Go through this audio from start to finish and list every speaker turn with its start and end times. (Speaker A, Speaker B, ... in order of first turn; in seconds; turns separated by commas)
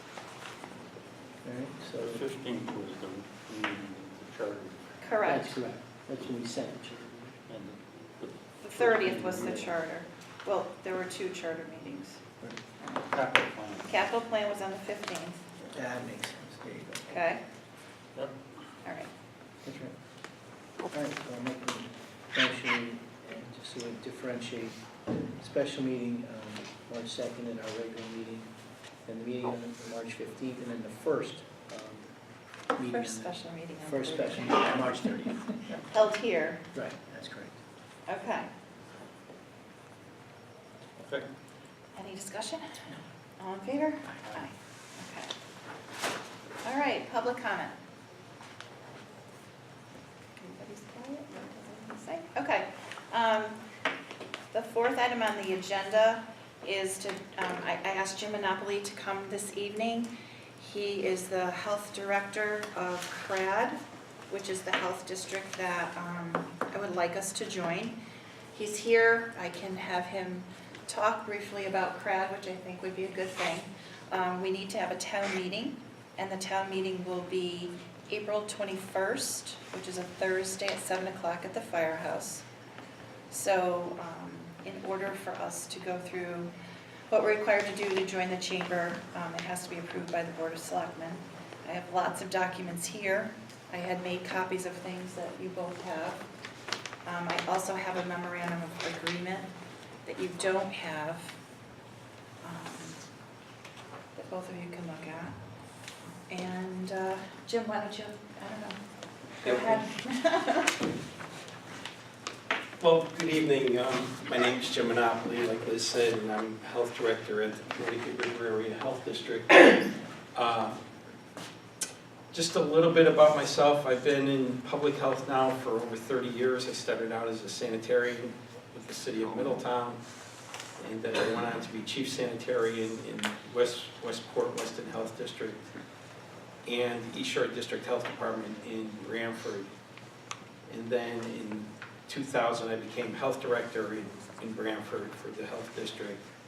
Speaker A: 1.4-2.2, Speaker B: 2.0-5.0, Speaker C: 5.0-5.6, Speaker A: 5.2-7.8, Speaker C: 8.6-12.2, Speaker B: 8.9-9.4, Speaker A: 9.0-9.7, Speaker B: 13.1-14.0, Speaker C: 13.9-15.4, Speaker A: 15.7-17.1, Speaker C: 17.1-17.4, Speaker C: 18.8-19.1, Speaker A: 19.6-19.9, Speaker A: 20.9-24.8, Speaker A: 25.4-28.5, Speaker A: 29.1-32.1, Speaker A: 32.8-35.7, Speaker C: 32.9-34.9, Speaker C: 35.9-36.6, Speaker A: 36.7-37.6, Speaker C: 38.1-38.5, Speaker C: 42.0-45.3, Speaker C: 46.6-47.8, Speaker C: 50.4-53.6, Speaker C: 54.5-63.8, Speaker C: 64.3-68.0, Speaker C: 68.5-82.5, Speaker C: 83.3-86.5, Speaker C: 87.1-96.2, Speaker C: 97.0-99.5, Speaker C: 100.0-101.3, Speaker C: 102.4-103.0, Speaker C: 104.2-105.4, Speaker C: 106.3-108.8, Speaker C: 109.4-110.8, Speaker D: 109.4-109.8, Speaker D: 112.8-120.8, Speaker D: 122.3-130.0, Speaker D: 130.8-135.6, Speaker D: 136.7-139.7, Speaker D: 140.7-146.2